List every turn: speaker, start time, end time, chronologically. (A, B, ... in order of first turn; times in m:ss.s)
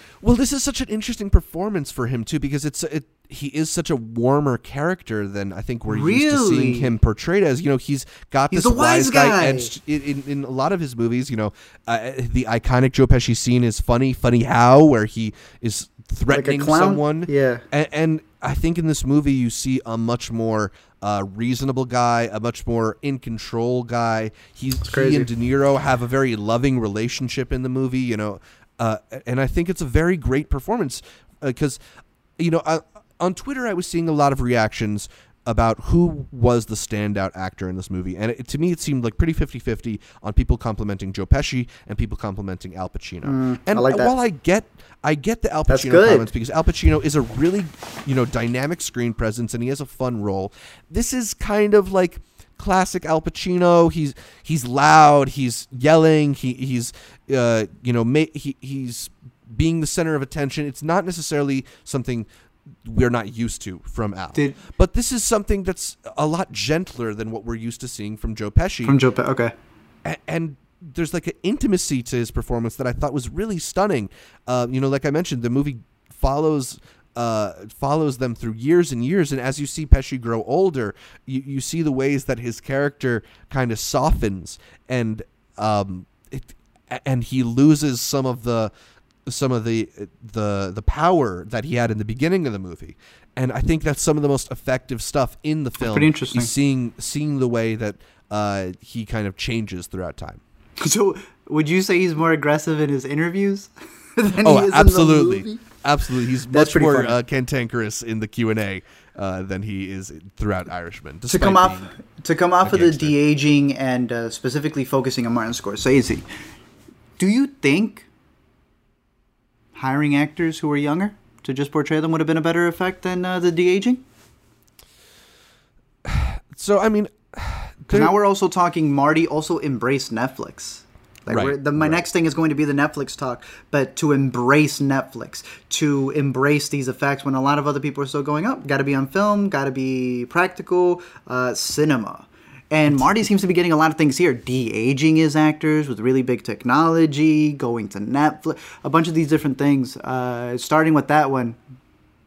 0:00.2-0:31.8 A
0:05.9-0:06.9 B
0:08.5-0:09.7 B
0:16.3-0:17.6 B
0:24.8-0:25.3 B
0:32.4-1:02.3 A
0:43.2-0:44.1 B
0:45.7-0:46.3 B
1:02.8-1:09.0 A
1:08.8-1:09.5 B
1:10.0-1:28.7 A
1:29.3-1:40.4 A
1:35.8-1:36.5 B
1:40.8-1:45.6 B
1:44.4-1:51.9 A
1:46.5-1:47.2 B
1:51.3-1:56.2 B
1:52.6-1:53.2 A
1:57.2-1:58.1 B
1:59.8-2:04.0 B
2:06.0-2:08.1 A
2:07.9-2:31.6 B
2:11.3-2:12.0 A